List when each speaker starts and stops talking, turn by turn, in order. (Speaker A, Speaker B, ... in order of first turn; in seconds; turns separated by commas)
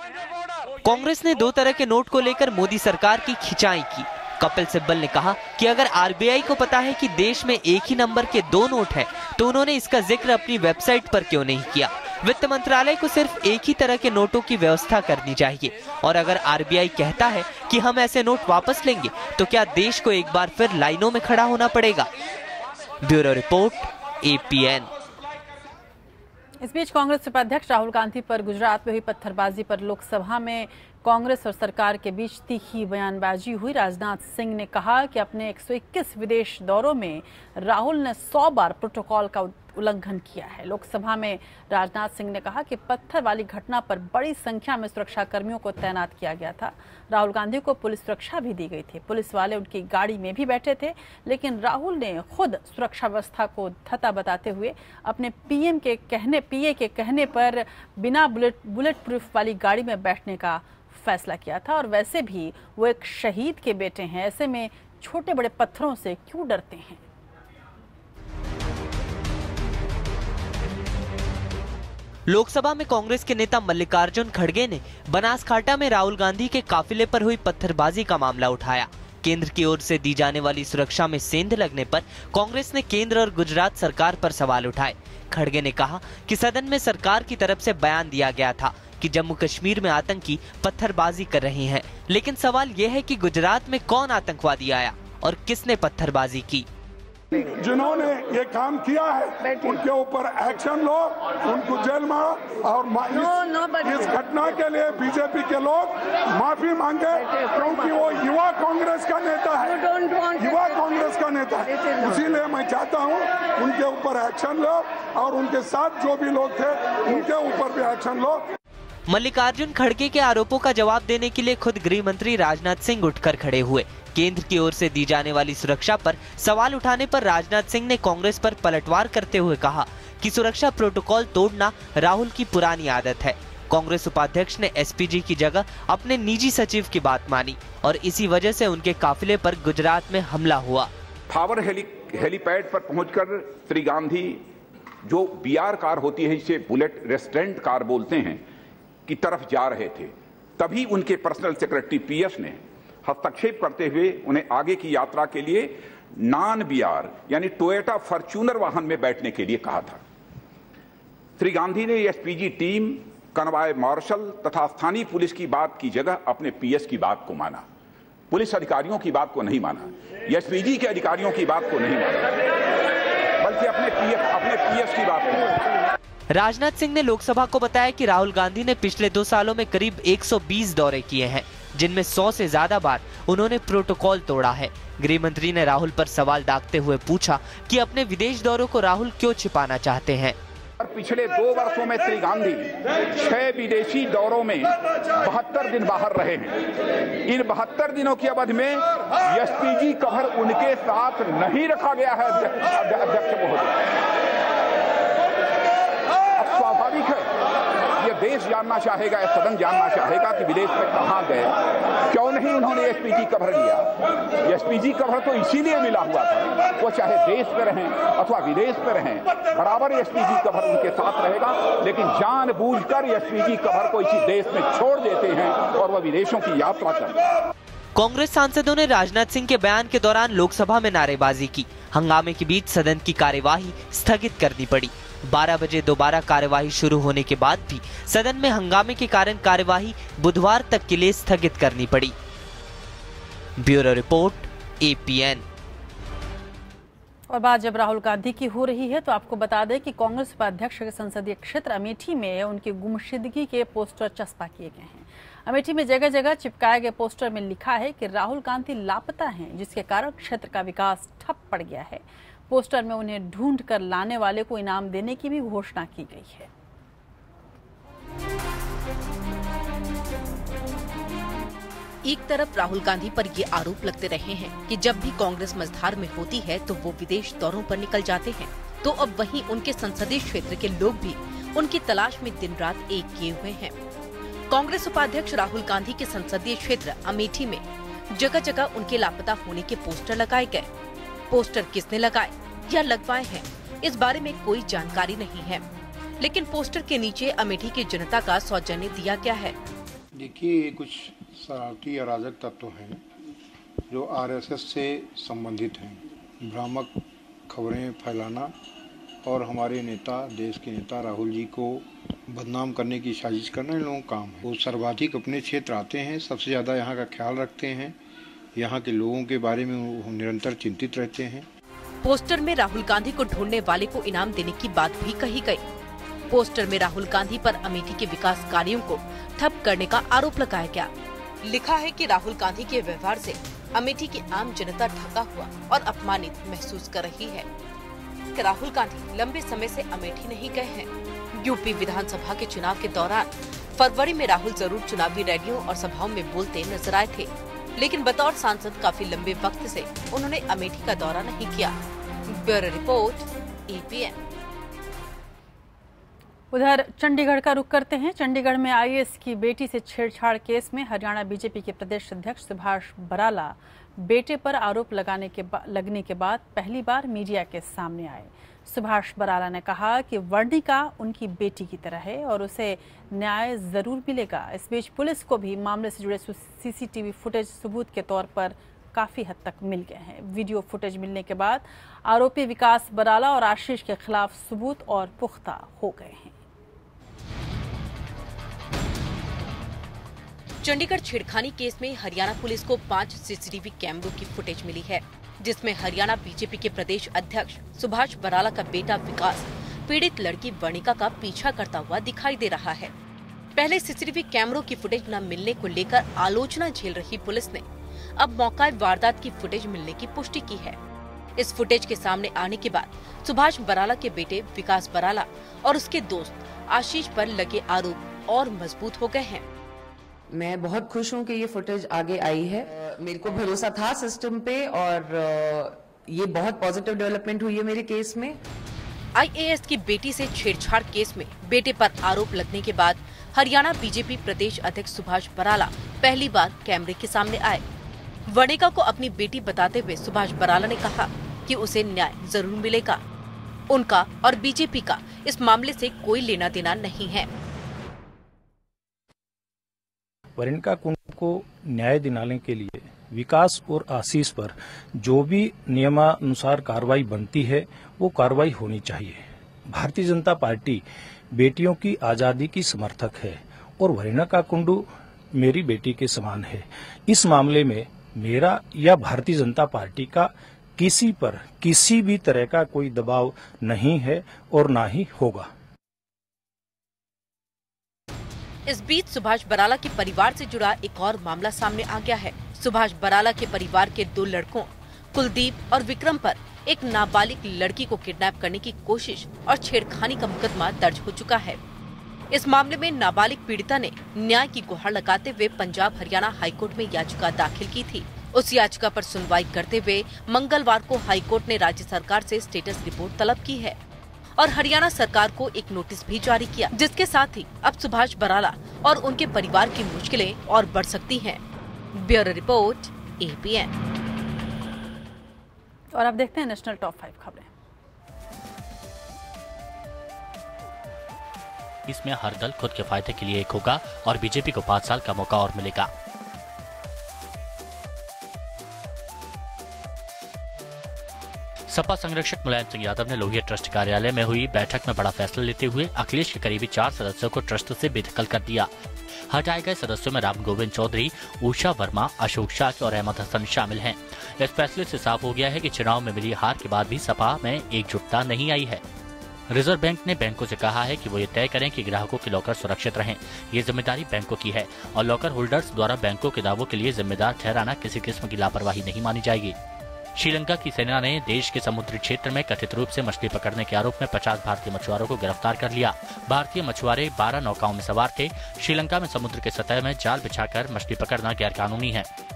Speaker A: 0.8-22.1, Speaker A: 23.0-24.9, Speaker B: 26.6-67.0, Speaker A: 72.3-96.7, Speaker C: 97.3-118.4, Speaker A: 119.1-140.9, Speaker D: 141.3-144.4, Speaker D: 145.0-148.4, Speaker D: 149.1-160.0, Speaker D: 161.4-167.6, Speaker D: 168.3-172.3, Speaker D: 173.4-175.6, Speaker A: 176.3-190.4, Speaker D: 190.8-196.6, Speaker D: 197.2-204.0, Speaker D: 206.4-207.3, Speaker D: 208.0-227.2, Speaker A: 227.9-242.1, Speaker A: 243.6-245.4, Speaker B: 247.3-266.5, Speaker E: 272.0-283.7, Speaker E: 284.5-287.6, Speaker E: 288.1-290.7, Speaker E: 291.3-295.6, Speaker E: 296.2-299.5, Speaker F: 300.1-303.0, Speaker F: 303.9-308.5, Speaker F: 309.2-318.0, Speaker F: 318.6-321.5, Speaker E: 322.0-325.6, Speaker E: 326.3-330.9, Speaker E: 331.4-337.5, Speaker E: 338.3-351.8, Speaker E: 352.3-354.1, Speaker B: 356.5-386.3, Speaker E: 390.6-402.9, Speaker E: 403.6-407.6, Speaker E: 408.2-410.8, Speaker E: 411.4-419.4, Speaker G: 420.4-425.4, Speaker G: 426.2-428.1, Speaker E: 429.1-437.6, Speaker E: 438.3-443.0, Speaker E: 443.7-447.3, Speaker H: 450.4-475.5, Speaker E: 478.7-491.6, Speaker E: 492.3-503.8, Speaker E: 504.4-511.4, Speaker E: 511.9-513.7, Speaker B: 515.9-517.5, Speaker I: 521.9-525.9, Speaker I: 531.7-538.7, Speaker I: 539.3-548.8, Speaker I: 549.5-559.5, Speaker I: 560.2-572.1